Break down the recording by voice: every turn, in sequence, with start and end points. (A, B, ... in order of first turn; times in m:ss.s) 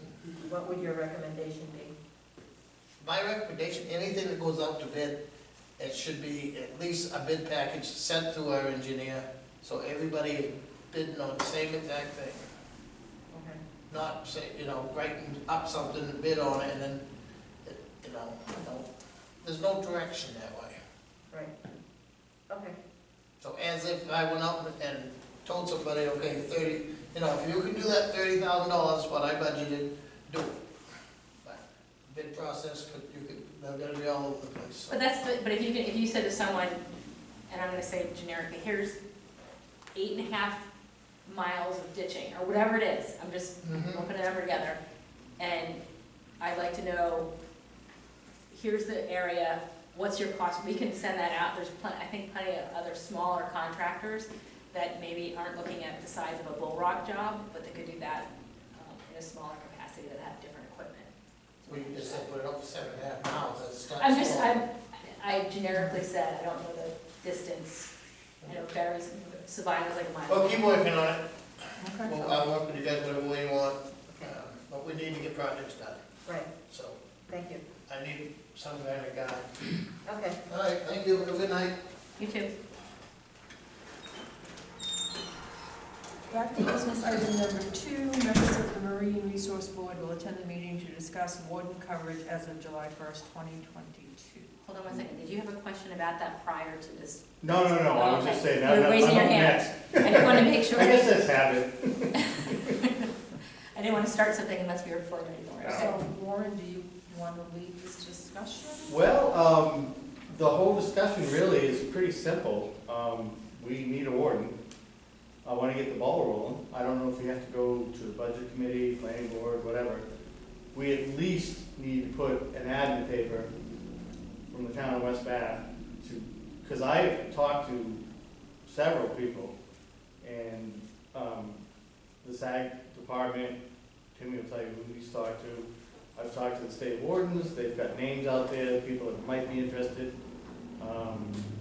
0:00.4-0:01.9 A
0:03.0-0:05.2 B
0:05.8-0:12.4 B
0:13.3-0:13.6 A
0:13.9-0:17.0 B
0:17.6-0:18.9 B
0:19.4-0:20.8 B
0:22.5-0:22.8 A
0:23.4-0:30.6 B
0:31.4-0:35.0 B
0:34.9-0:36.8 C
0:37.5-0:39.0 C
0:39.9-0:40.6 C
0:41.2-0:44.8 C
0:43.6-0:44.1 B
0:45.4-0:45.8 C
0:46.4-0:47.3 C
0:48.5-1:01.1 C
1:01.6-1:02.3 C
1:01.6-1:04.6 B
1:04.0-1:07.9 C
1:05.7-1:06.0 D
1:08.4-1:10.7 C
1:10.3-1:16.0 B
1:11.8-1:12.4 D
1:16.2-1:16.5 A
1:16.7-1:17.0 B
1:17.3-1:17.6 A
1:17.8-1:19.6 B
1:20.0-1:20.4 A
1:20.5-1:21.8 B
1:22.2-1:22.5 C
1:26.3-1:34.6 D
1:34.6-1:37.2 C
1:37.4-1:42.6 E
1:37.7-1:41.2 C
1:42.5-1:43.1 C
1:43.7-1:45.9 C
1:45.6-1:45.9 E
1:45.7-1:49.0 D
1:48.9-1:54.5 E
1:55.4-2:00.0 E
2:00.7-2:03.5 E
2:04.5-2:08.0 E
2:08.6-2:09.5 E
2:10.2-2:11.6 E
2:12.2-2:13.6 E
2:14.1-2:20.1 E
2:20.8-2:21.4 E